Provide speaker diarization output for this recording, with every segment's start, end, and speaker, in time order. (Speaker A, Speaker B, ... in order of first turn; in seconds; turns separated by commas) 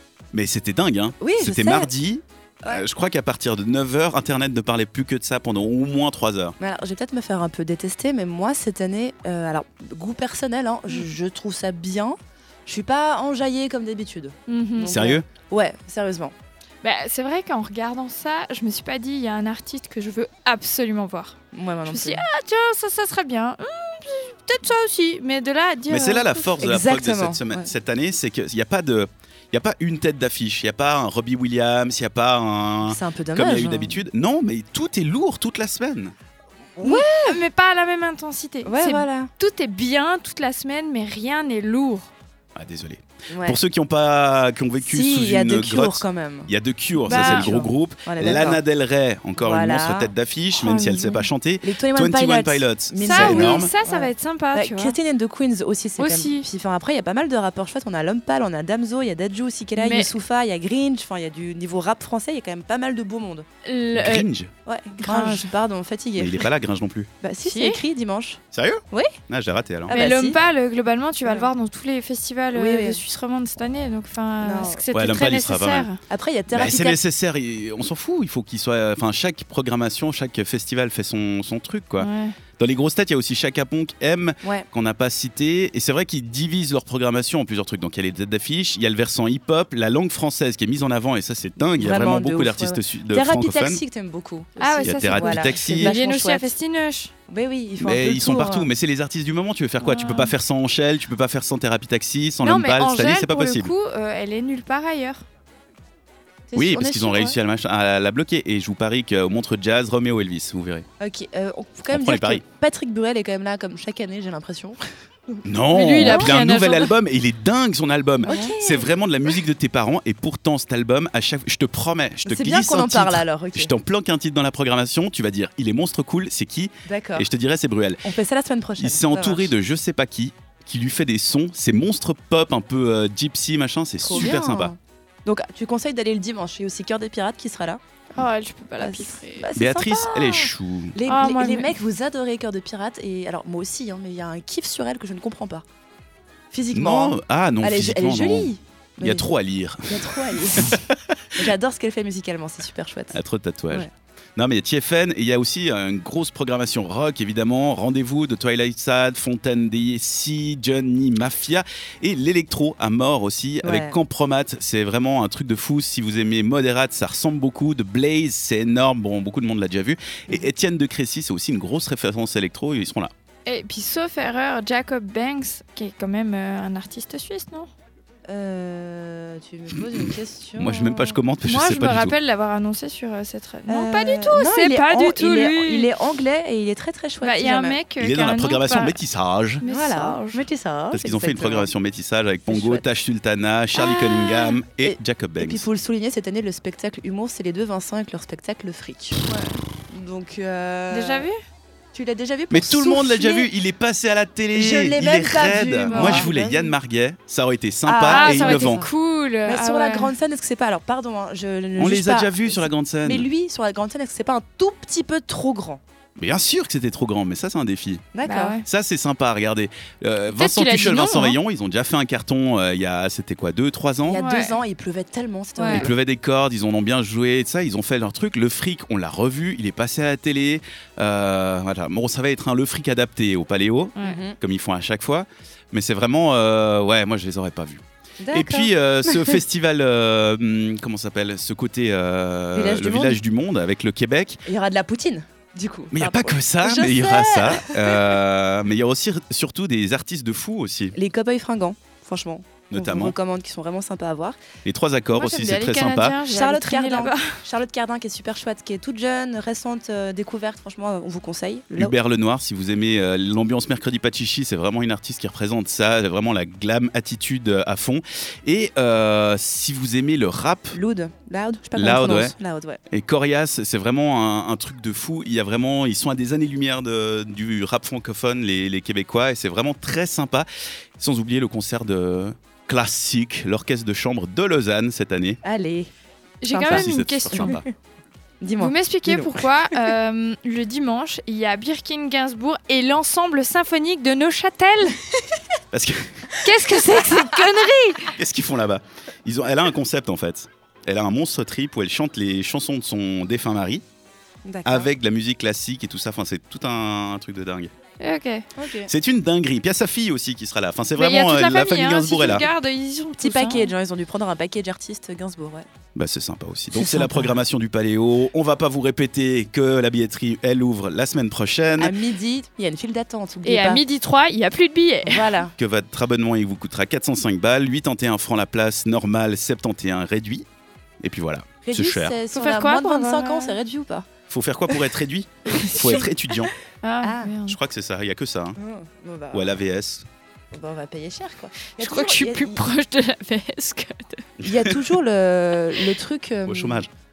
Speaker A: 0.3-6.6, Speaker B: 1.2-1.9, Speaker B: 6.6-16.3, Speaker C: 14.5-15.0, Speaker A: 14.9-15.3, Speaker C: 16.8-26.6, Speaker B: 21.5-22.2, Speaker A: 25.9-36.1, Speaker B: 26.6-27.7, Speaker B: 32.9-34.0, Speaker B: 36.8-37.4, Speaker C: 36.8-42.1, Speaker B: 38.6-39.3, Speaker A: 42.5-53.7, Speaker B: 43.3-43.6, Speaker B: 44.8-48.6, Speaker C: 47.1-47.6, Speaker B: 49.4-50.1, Speaker C: 50.6-51.3, Speaker B: 51.6-63.5, Speaker C: 53.0-55.0, Speaker C: 56.0-56.5, Speaker C: 59.8-60.1, Speaker C: 63.6-64.3, Speaker A: 64.0-64.5, Speaker B: 64.7-66.5, Speaker C: 65.0-65.5, Speaker A: 66.2-67.1, Speaker B: 67.2-69.1, Speaker C: 67.5-67.8, Speaker A: 68.5-70.0, Speaker B: 69.9-70.4, Speaker C: 69.9-76.0, Speaker B: 72.5-73.0, Speaker B: 74.4-74.8, Speaker A: 74.9-75.9, Speaker B: 76.1-77.0, Speaker A: 76.5-93.8, Speaker C: 82.0-82.4, Speaker B: 91.6-96.5, Speaker C: 94.6-97.1, Speaker A: 94.8-96.0, Speaker B: 97.3-98.7, Speaker A: 97.8-103.7, Speaker C: 99.8-100.3, Speaker C: 102.4-105.2, Speaker B: 106.5-107.4, Speaker A: 106.5-110.9, Speaker B: 111.0-115.5, Speaker A: 111.9-112.4, Speaker A: 115.4-128.1, Speaker C: 115.7-117.0, Speaker B: 116.0-116.4, Speaker B: 118.2-118.9, Speaker B: 122.2-123.7, Speaker B: 126.9-127.3, Speaker B: 128.0-129.5, Speaker A: 128.8-134.8, Speaker B: 134.1-137.8, Speaker C: 138.2-139.5, Speaker B: 138.8-145.7, Speaker A: 139.6-141.0, Speaker C: 141.1-141.7, Speaker B: 146.5-149.3, Speaker A: 146.7-151.4, Speaker B: 149.8-150.8, Speaker B: 151.3-153.2, Speaker A: 153.1-173.1, Speaker B: 163.6-164.0, Speaker C: 173.5-177.7, Speaker B: 178.3-181.0, Speaker A: 180.6-182.2, Speaker C: 181.4-185.9, Speaker B: 183.7-187.8, Speaker C: 187.2-189.0, Speaker A: 188.0-189.6, Speaker C: 189.6-190.5, Speaker B: 189.7-191.7, Speaker A: 190.9-195.7, Speaker B: 192.5-192.9, Speaker C: 193.8-194.6, Speaker B: 194.8-199.2, Speaker C: 199.3-199.6, Speaker B: 199.9-201.3, Speaker C: 200.9-201.4, Speaker B: 201.9-203.5, Speaker A: 202.5-208.9, Speaker B: 204.5-206.7, Speaker C: 205.8-206.3, Speaker B: 207.9-208.9, Speaker C: 208.1-210.2, Speaker B: 209.5-215.8, Speaker A: 211.8-213.3, Speaker A: 216.2-218.1, Speaker B: 218.1-218.6, Speaker C: 218.2-218.7, Speaker A: 218.6-224.2, Speaker C: 220.3-221.4, Speaker B: 224.1-225.9, Speaker C: 224.2-224.6, Speaker C: 225.6-225.9, Speaker A: 225.7-244.4, Speaker C: 234.0-234.2, Speaker B: 234.0-234.4, Speaker B: 238.2-239.4, Speaker B: 242.5-243.2, Speaker B: 244.5-248.2, Speaker A: 245.9-251.0, Speaker B: 250.9-254.4, Speaker A: 252.7-253.2, Speaker A: 254.7-256.2, Speaker C: 255.1-257.4, Speaker B: 256.3-261.9, Speaker A: 261.8-270.8, Speaker B: 270.7-272.8, Speaker A: 271.8-272.4, Speaker A: 272.9-280.5, Speaker A: 281.0-285.4, Speaker B: 285.4-285.9, Speaker C: 286.4-287.6, Speaker B: 286.5-287.6, Speaker A: 286.7-287.7, Speaker B: 288.4-289.5, Speaker C: 288.6-295.0, Speaker A: 295.7-296.5, Speaker C: 296.4-298.2, Speaker B: 297.0-297.3, Speaker A: 298.1-303.8, Speaker B: 304.4-304.9, Speaker A: 304.6-307.7, Speaker C: 308.0-308.5, Speaker B: 308.6-308.9, Speaker A: 308.9-312.5, Speaker C: 311.0-313.7, Speaker B: 313.2-315.7, Speaker A: 315.9-322.0, Speaker B: 316.8-317.3, Speaker B: 321.8-323.8, Speaker C: 323.4-325.4, Speaker B: 325.1-325.5, Speaker A: 325.6-330.5, Speaker A: 331.0-332.2, Speaker B: 331.6-334.1, Speaker C: 332.3-333.6, Speaker A: 334.3-336.5, Speaker C: 335.5-336.1, Speaker C: 336.8-337.6, Speaker B: 337.0-337.3, Speaker A: 337.4-338.6, Speaker B: 338.6-339.6, Speaker A: 339.3-340.1, Speaker B: 340.5-342.6, Speaker C: 341.8-344.3, Speaker B: 344.4-346.8, Speaker A: 346.5-346.9